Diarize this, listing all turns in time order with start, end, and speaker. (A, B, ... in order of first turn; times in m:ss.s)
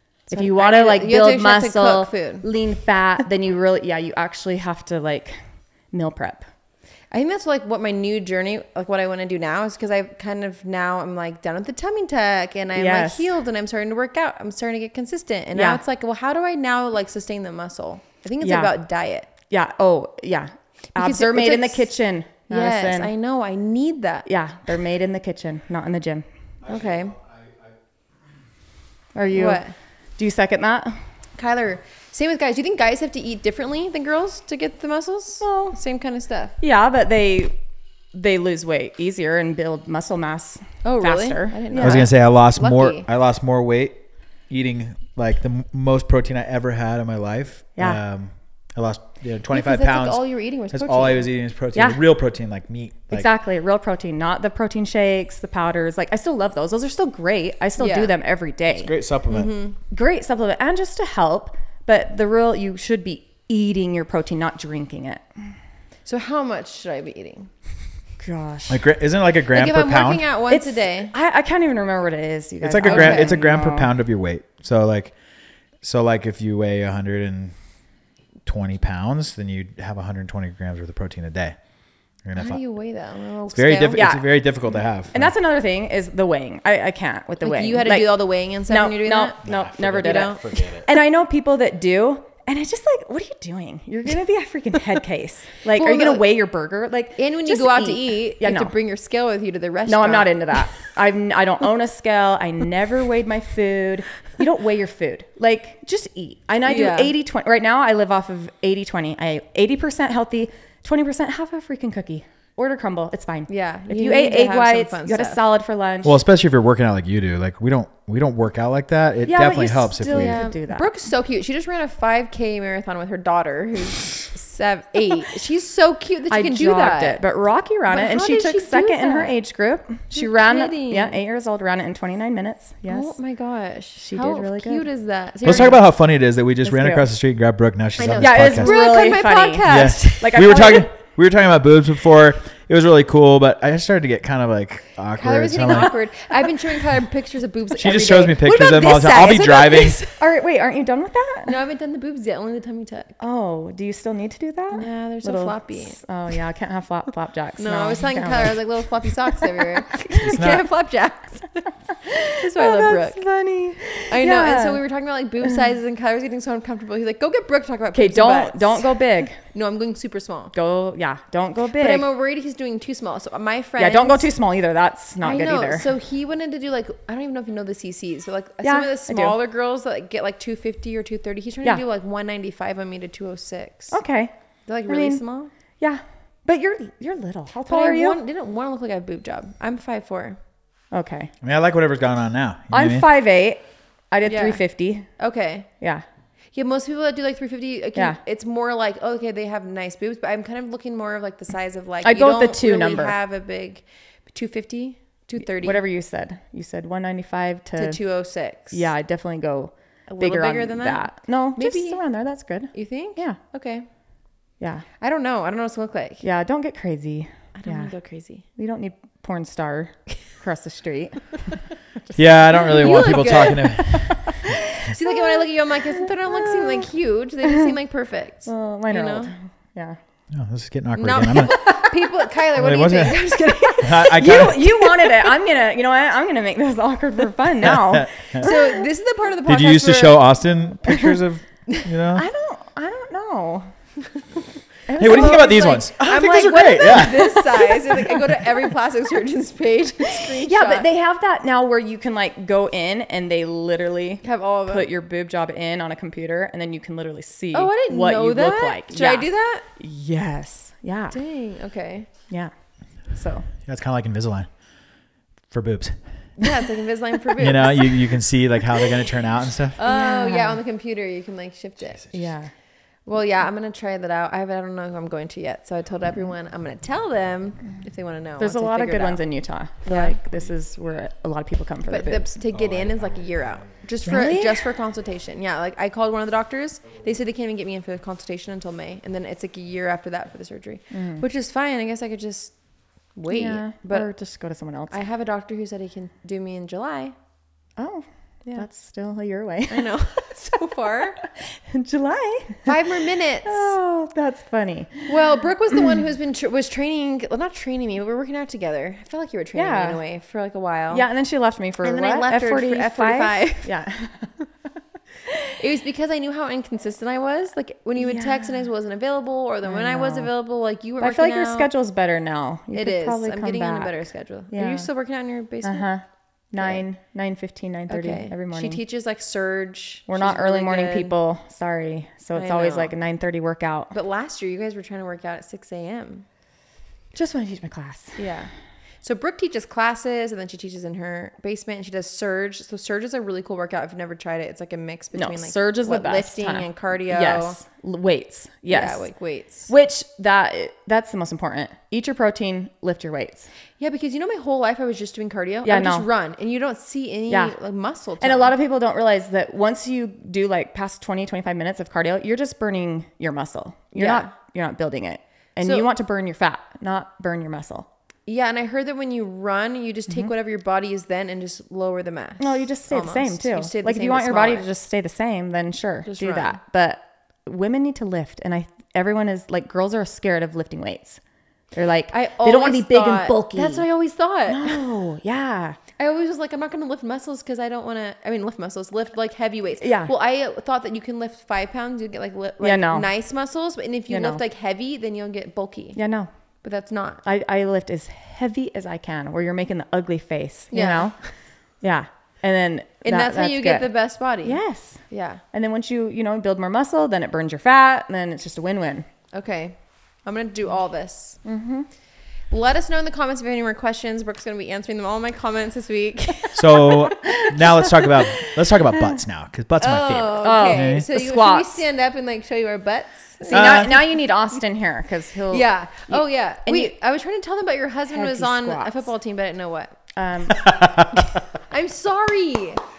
0:00.3-0:06.5 A
0:00.3-0:02.4 B
0:07.1-0:19.3 B
0:12.7-0:13.3 A
0:15.5-0:15.8 A
0:18.4-0:18.8 A
0:19.3-0:23.1 A
0:21.0-0:21.9 B
0:22.5-0:24.3 B
0:24.2-0:26.2 A
0:26.6-0:27.7 C
0:26.6-0:27.2 B
0:29.1-0:29.6 A
0:29.3-0:29.7 B
0:30.2-0:31.1 A
0:31.4-0:36.6 B
0:35.4-0:35.8 A
0:36.6-0:37.6 A
0:38.1-0:42.0 A
0:40.8-0:43.0 B
0:41.8-0:53.3 C
0:47.8-0:48.0 A
0:49.5-0:51.3 B
0:51.7-0:52.0 A
0:53.1-0:58.9 A
0:57.8-0:58.1 B
0:58.7-0:59.5 C
0:59.3-0:59.8 B
0:59.9-1:05.6 A
1:06.0-1:07.5 B
1:08.2-1:08.8 A
1:08.7-1:10.2 C
1:09.5-1:11.1 B
1:10.5-1:13.9 A
1:12.6-1:15.2 C
1:12.8-1:13.4 B
1:15.8-1:17.6 C
1:18.4-1:21.6 C
1:22.2-1:22.6 C
1:22.3-1:24.0 B
1:23.5-1:25.3 C
1:23.9-1:24.5 A
1:25.1-1:38.7 A
1:27.4-1:30.4 B
1:29.4-1:30.8 C
1:35.7-1:36.3 B
1:37.2-1:40.8 B
1:39.9-1:56.2 A
1:46.6-1:47.1 B
1:53.5-1:55.4 B
1:56.0-2:00.4 C
1:59.2-2:00.9 A
2:00.0-2:07.2 B
2:06.3-2:13.2 A
2:07.9-2:09.3 B
2:10.1-2:11.2 B
2:12.9-2:15.8 B
2:14.0-2:14.9 A
2:15.4-2:15.7 A
2:15.4-2:18.7 C
2:16.6-2:17.1 A
2:18.0-2:20.8 B
2:18.2-2:20.9 A
2:19.7-2:26.0 C
2:25.1-2:30.2 B
2:27.7-2:30.0 C
2:30.2-2:31.5 A
2:31.4-2:33.2 B
2:33.2-2:38.6 A
2:34.7-2:36.0 B
2:37.6-2:41.8 B
2:40.2-2:40.6 C
2:42.2-2:44.8 A
2:42.3-2:43.4 B
2:43.9-2:50.5 B
2:47.9-2:49.5 A
2:50.5-2:52.0 A
2:51.8-2:54.3 B
2:53.8-2:55.9 A
2:55.2-3:04.0 B
2:58.6-2:59.3 A
3:03.9-3:04.3 A
3:04.6-3:05.5 B
3:04.9-3:08.2 A
3:07.6-3:10.4 B
3:10.9-3:11.3 A
3:11.4-3:13.0 C
3:12.7-3:15.2 A
3:14.3-3:15.7 B
3:15.8-3:16.0 A
3:16.5-3:25.8 B
3:17.9-3:18.2 A
3:22.0-3:23.2 A
3:25.4-3:33.4 A
3:27.8-3:28.9 B
3:30.1-3:33.9 B
3:34.6-3:34.9 A
3:35.0-3:36.2 B
3:36.2-3:41.7 A
3:37.6-3:38.4 B
3:42.1-3:44.3 B
3:42.1-3:44.4 C
3:42.5-3:44.3 A
3:44.8-3:49.3 B
3:44.9-3:45.5 A
3:46.4-3:46.9 A
3:48.4-3:50.0 A
3:50.3-3:51.7 C
3:50.9-3:54.9 B
3:52.6-3:54.6 C
3:54.0-3:58.8 A
3:57.6-3:58.5 C
3:58.4-4:00.4 B
3:59.4-4:02.2 C
4:00.9-4:01.2 A
4:02.1-4:04.0 A
4:04.9-4:05.9 A
4:05.0-4:07.7 C
4:05.0-4:10.9 B
4:06.9-4:07.2 A
4:10.4-4:21.2 A
4:14.2-4:14.9 B
4:17.5-4:19.6 B
4:21.1-4:22.1 B
4:22.3-4:23.5 A
4:23.6-4:26.5 C
4:26.4-4:28.3 B
4:27.4-4:29.8 C
4:29.8-4:39.3 B
4:29.8-4:30.6 A
4:31.8-4:32.2 C
4:32.1-4:32.5 A
4:38.4-4:42.3 A
4:39.8-4:40.2 B
4:41.9-4:54.3 B
4:42.5-4:44.2 C
4:44.0-4:44.7 A
4:50.9-4:51.2 A
4:53.3-4:55.0 A
4:54.9-4:57.1 B
4:57.8-4:59.9 A
4:59.7-5:01.2 B
5:01.2-5:05.1 A
5:02.6-5:03.8 B
5:05.1-5:11.1 B
5:09.5-5:10.0 A
5:10.9-5:14.6 A
5:11.8-5:13.7 B
5:15.5-5:21.7 B
5:18.0-5:18.7 A
5:19.6-5:20.4 A
5:21.0-5:24.9 A
5:22.7-5:26.8 B
5:25.6-5:28.8 A
5:27.9-5:31.1 B
5:30.1-5:33.9 A
5:32.3-5:32.9 B
5:33.9-5:36.2 B
5:37.1-5:38.4 A
5:38.2-5:47.6 B
5:45.1-5:53.5 A
5:48.7-5:49.7 B
5:53.8-5:58.5 B
5:55.6-5:56.1 A
5:57.3-5:57.6 A
5:58.2-6:07.9 A
6:03.9-6:04.3 B
6:05.6-6:05.9 B
6:08.3-6:14.7 B
6:12.4-6:25.8 A
6:16.0-6:16.6 B
6:22.1-6:24.8 B
6:26.0-6:36.0 B
6:29.8-6:30.1 A
6:32.6-6:33.1 A
6:34.1-6:34.4 A
6:36.0-6:36.3 A
6:36.6-6:37.2 B
6:37.2-6:49.1 A
6:40.7-6:41.4 B
6:43.0-6:45.4 B
6:49.3-6:51.4 B
6:51.4-6:51.9 A
6:52.5-6:56.9 B
6:56.5-7:01.0 C
6:57.1-6:59.2 A
6:59.8-7:04.1 B
7:00.4-7:01.8 A
7:03.4-7:06.9 A
7:03.5-7:04.0 C
7:05.5-7:10.1 B
7:08.1-7:09.1 A
7:10.1-7:10.8 A
7:10.5-7:11.4 C
7:11.7-7:12.8 B